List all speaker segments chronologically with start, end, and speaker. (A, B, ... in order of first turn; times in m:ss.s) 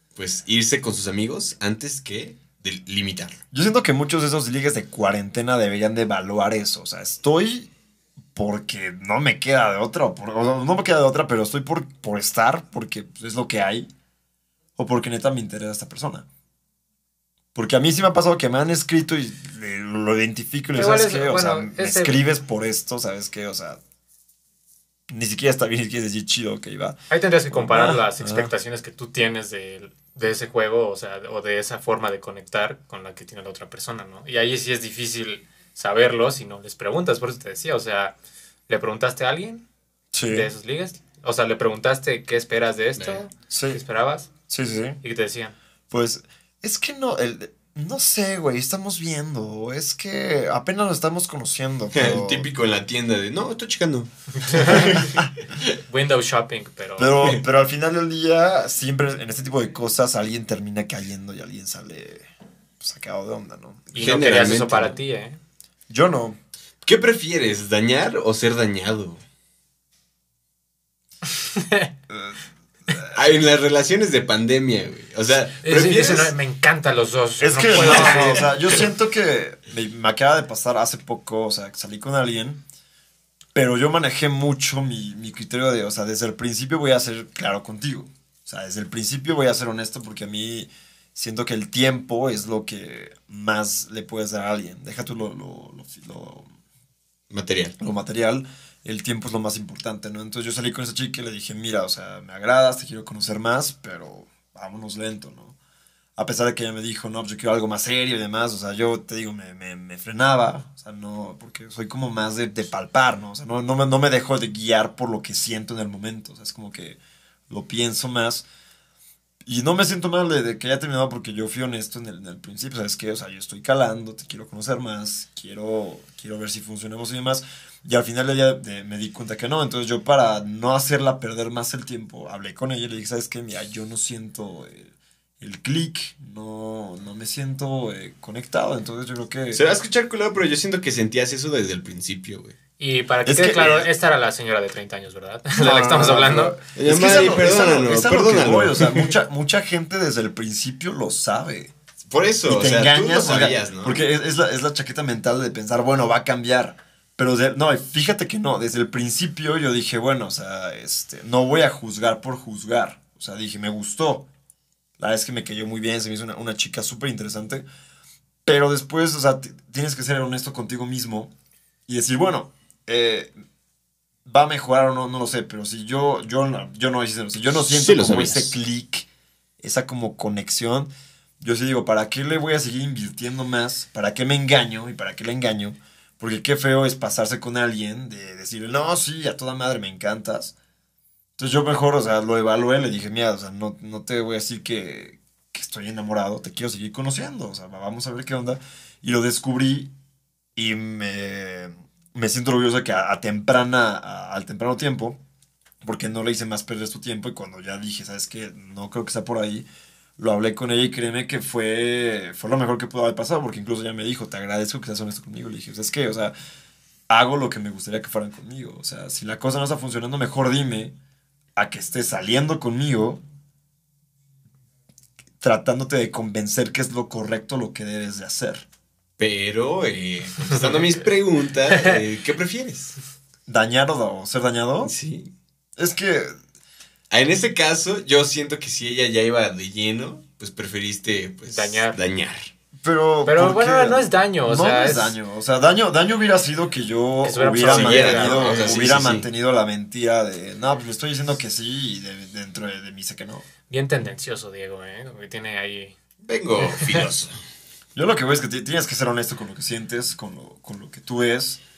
0:00.2-0:03.4 A
0:03.5-0:07.7 B
0:08.4-0:13.9 B
0:14.8-0:16.3 B
0:17.6-0:23.8 B
0:20.7-0:22.2 C
0:25.1-0:27.0 B
0:27.1-0:38.2 C
0:27.5-0:28.5 B
0:38.7-0:39.6 C
0:40.1-0:40.5 B
0:40.3-0:44.3 C
0:43.5-0:43.8 B
0:44.5-0:45.0 B
0:45.0-0:45.6 C
0:45.9-0:52.5 B
0:51.9-0:55.6 A
0:54.4-0:55.0 C
0:55.9-0:57.2 C
0:57.0-1:03.9 B
1:03.9-1:05.4 C
1:04.0-1:05.0 A
1:05.9-1:06.4 B
1:06.8-1:09.2 A
1:11.4-1:11.9 C
1:12.1-1:13.2 B
1:13.1-1:16.3 A
1:15.6-1:18.5 C
1:17.4-1:22.6 B
1:17.8-1:18.4 A
1:23.6-1:36.5 B
1:37.3-1:37.8 A
1:37.8-1:45.6 B
1:46.2-1:58.5 B
1:59.4-2:19.6 B
2:19.5-2:22.6 A
2:22.8-2:26.6 C
2:23.3-2:23.9 B
2:25.6-2:31.7 B
2:26.7-2:29.1 A
2:32.1-2:34.0 A
2:32.4-2:44.3 B
2:45.0-2:47.7 B
2:48.5-2:51.3 B
2:51.9-2:53.3 B
2:54.2-2:59.1 B
2:57.6-2:58.6 A
2:59.6-3:10.5 B
3:11.4-3:19.9 B
3:20.6-3:25.2 B
3:25.8-3:36.3 B
3:37.1-3:41.0 B
3:41.6-3:43.2 B
3:45.4-3:48.7 B
3:49.2-3:53.0 A
3:53.5-3:54.9 B
3:54.8-3:55.3 A
3:55.8-3:56.4 B
3:57.1-4:02.5 A
4:01.5-4:02.0 C
4:02.8-4:13.5 B
4:03.2-4:05.2 C
4:07.2-4:08.7 C
4:07.6-4:09.3 A
4:13.7-4:16.0 C
4:16.2-4:17.4 A
4:16.6-4:17.1 C
4:18.0-4:21.6 B